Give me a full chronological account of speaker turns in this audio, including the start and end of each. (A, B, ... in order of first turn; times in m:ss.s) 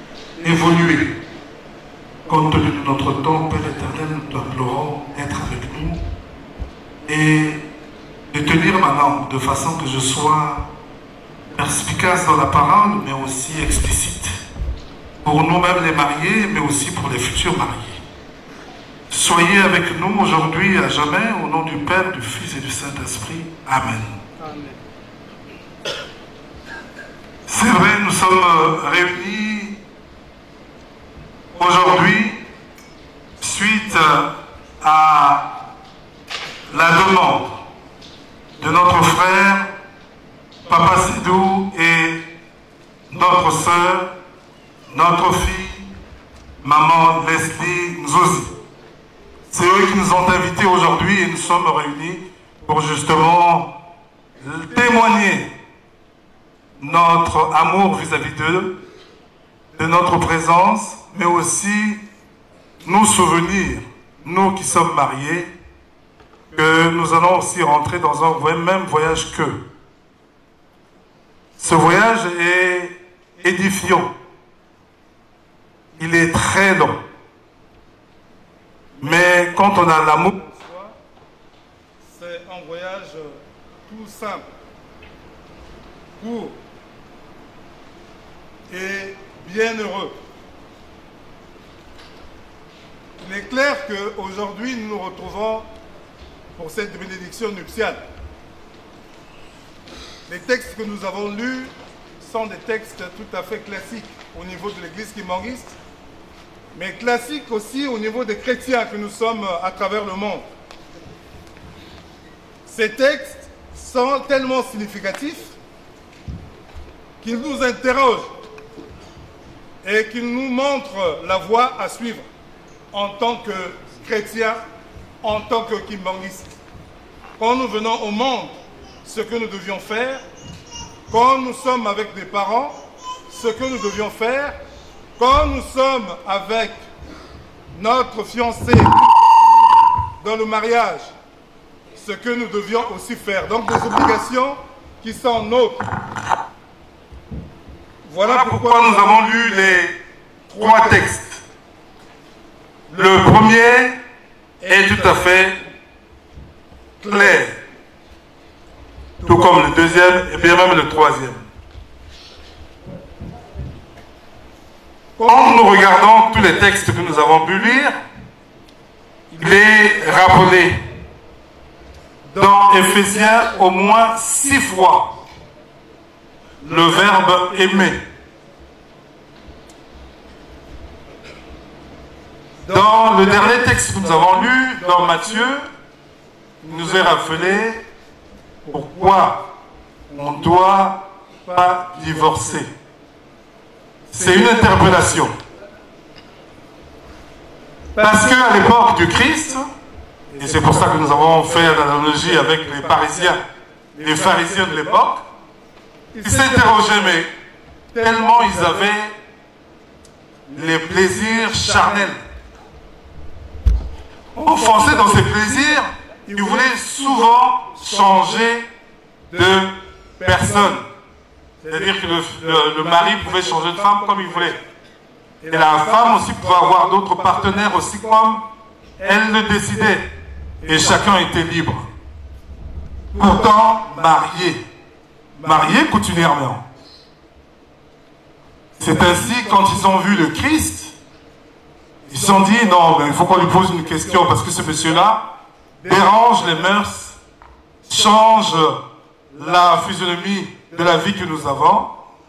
0:00.4-0:01.2 A
0:02.3-0:06.0 A
0:07.0-0:07.6 A
0:08.3-0:10.7 A
0:11.6-0:14.3 A
0:15.2-0:18.0 A
0:19.1-0:24.2 A
0:27.5-0:29.8 A
0:31.6-0:32.4 A
0:33.4-0:35.6 A
0:36.7-0:37.6 A
0:38.6-0:39.7 A
0:40.7-0:42.3 A
0:43.1-0:44.1 A
0:44.9-0:45.9 A
0:46.6-0:48.5 A
0:49.5-0:53.7 A
0:54.4-0:55.5 A
0:56.8-0:58.8 A
0:59.8-1:02.0 A
1:02.8-1:05.5 A
1:06.5-1:09.6 A
1:11.6-1:14.1 A
1:16.0-1:17.0 A
1:19.0-1:20.3 A
1:19.0-1:19.3 B
1:20.2-1:21.0 B
1:22.1-1:24.5 B
1:26.2-1:26.6 B
1:28.7-1:30.2 B
1:33.2-1:35.7 B
1:36.6-1:38.0 B
1:40.3-1:45.7 B
1:46.7-1:50.5 B
1:52.6-1:55.6 B
1:57.2-1:58.3 B
1:59.8-2:02.3 B
2:02.9-2:04.6 B
2:05.2-2:06.5 B
2:07.4-2:10.2 B
2:11.1-2:14.6 B
2:15.2-2:16.8 B
2:17.7-2:19.5 B
2:20.2-2:21.1 B
2:22.0-2:25.8 B
2:28.0-2:29.9 B
2:28.2-2:30.0 A
2:30.5-2:31.4 A
2:30.6-2:31.0 B
2:32.9-2:34.0 A
2:34.6-2:35.6 A
2:34.6-2:35.2 B
2:37.0-2:37.6 A
2:39.2-2:41.5 A
2:45.2-2:48.0 A
2:45.2-2:46.2 B
2:47.1-2:47.4 B
2:49.4-2:50.8 A
2:52.3-2:53.4 B
2:52.4-2:55.1 A
2:56.6-2:58.0 A
2:56.7-2:57.8 B
3:02.7-3:05.7 A
3:02.7-3:05.4 B
3:06.6-3:07.8 A
3:06.7-3:07.2 B
3:08.7-3:09.5 A
3:10.1-3:12.7 A
3:14.1-3:15.3 A
3:14.2-3:15.0 B
3:18.0-3:19.6 A
3:18.0-3:18.4 B
3:20.4-3:23.4 A
3:20.4-3:23.3 B
3:24.0-3:25.0 B
3:24.0-3:25.2 A
3:26.1-3:27.2 B
3:26.2-3:27.3 A
3:28.0-3:29.1 A
3:28.0-3:28.8 B
3:30.5-3:32.2 A
3:30.9-3:32.0 B
3:34.4-3:38.7 A
3:34.4-3:35.6 B
3:36.3-3:37.1 B
3:37.9-3:38.2 B
3:39.3-3:40.9 A
3:40.2-3:40.8 B
3:41.7-3:44.5 B
3:41.7-3:44.6 A
3:45.4-3:47.7 B
3:45.5-3:48.4 A
3:49.0-3:50.1 A
3:50.6-3:51.0 B
3:50.6-3:51.9 A
3:53.1-3:54.2 B
3:53.2-3:54.6 A
3:55.4-3:55.8 B
3:55.4-3:56.6 A
3:58.8-3:59.9 B
3:58.8-4:00.9 A
4:02.1-4:05.2 A
4:02.1-4:02.8 B
4:04.0-4:04.3 B
4:05.9-4:06.7 B
4:05.9-4:07.2 A
4:07.9-4:08.8 A
4:09.3-4:12.0 A